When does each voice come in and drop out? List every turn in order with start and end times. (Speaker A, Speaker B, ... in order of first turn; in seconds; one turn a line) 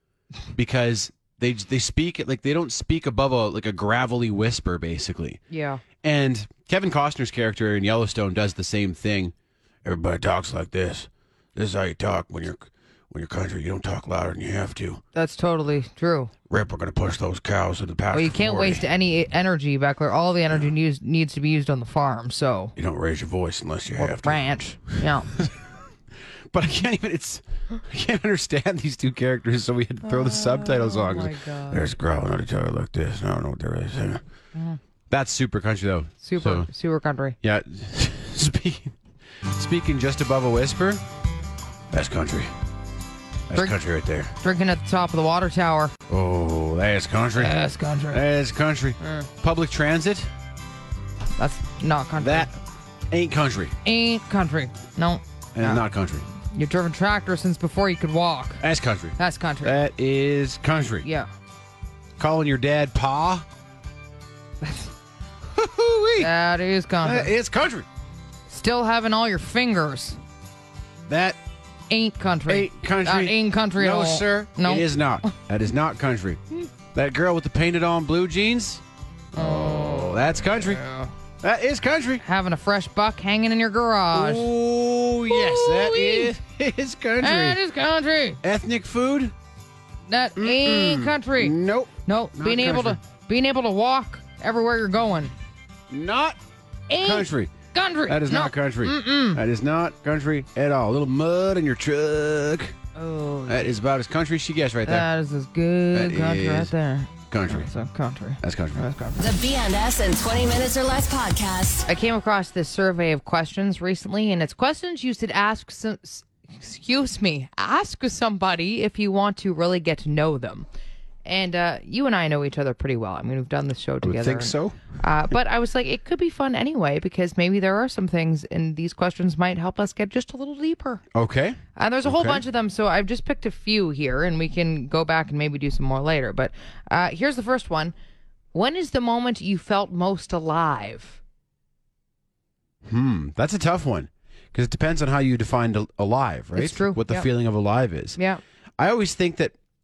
Speaker A: 0.5-5.4
Speaker B: 5.5-5.8
Speaker A: 6.0-15.0
Speaker B: 15.1-16.3
Speaker A: 16.5-18.8
Speaker B: 18.1-22.7
Speaker A: 22.8-24.4
Speaker B: 24.0-25.3
Speaker A: 25.0-25.5
Speaker A: 26.5-34.2
Speaker B: 30.0-31.9
Speaker A: 35.1-36.7
Speaker B: 36.2-37.4
Speaker A: 37.4-41.0
Speaker A: 41.9-42.5
Speaker A: 43.5-44.3
Speaker B: 44.4-45.9
Speaker A: 46.1-47.6
Speaker B: 47.4-48.2
Speaker A: 48.1-50.3
Speaker B: 49.0-49.3
Speaker B: 51.4-52.5
Speaker A: 52.2-52.5
Speaker A: 53.1-53.7
Speaker B: 53.8-55.8
Speaker A: 55.5-56.2
Speaker B: 56.5-58.6
Speaker A: 58.6-61.0
Speaker B: 59.2-59.8
Speaker B: 61.0-61.3
Speaker A: 62.2-63.4
Speaker B: 64.6-64.9
Speaker A: 65.5-66.3
Speaker B: 66.2-67.3
Speaker A: 67.0-67.9
Speaker B: 68.5-70.2
Speaker A: 71.1-71.4
Speaker B: 71.9-75.3
Speaker A: 72.5-76.4
Speaker A: 76.9-80.8
Speaker B: 79.3-81.1
Speaker A: 81.4-82.2
Speaker B: 82.2-84.5
Speaker A: 84.1-87.6
Speaker B: 85.3-86.3
Speaker B: 87.2-88.4
Speaker A: 88.4-89.3
Speaker B: 90.1-91.5
Speaker A: 90.4-93.0
Speaker B: 92.0-95.3
Speaker A: 95.9-96.4
Speaker B: 96.9-99.4
Speaker A: 97.0-97.5
Speaker A: 98.1-102.7
Speaker B: 102.9-103.7
Speaker A: 103.5-105.1
Speaker B: 104.8-109.2
Speaker A: 105.9-106.7
Speaker A: 107.3-107.7
Speaker A: 108.4-108.8
Speaker C: 109.2-111.9
Speaker B: 111.9-120.7
Speaker B: 121.2-131.0
Speaker A: 124.0-124.8
Speaker A: 131.1-132.4
Speaker B: 131.8-137.9
Speaker B: 138.5-141.2
Speaker A: 142.8-148.2
Speaker B: 146.5-147.3
Speaker B: 148.2-148.4
Speaker A: 148.8-149.5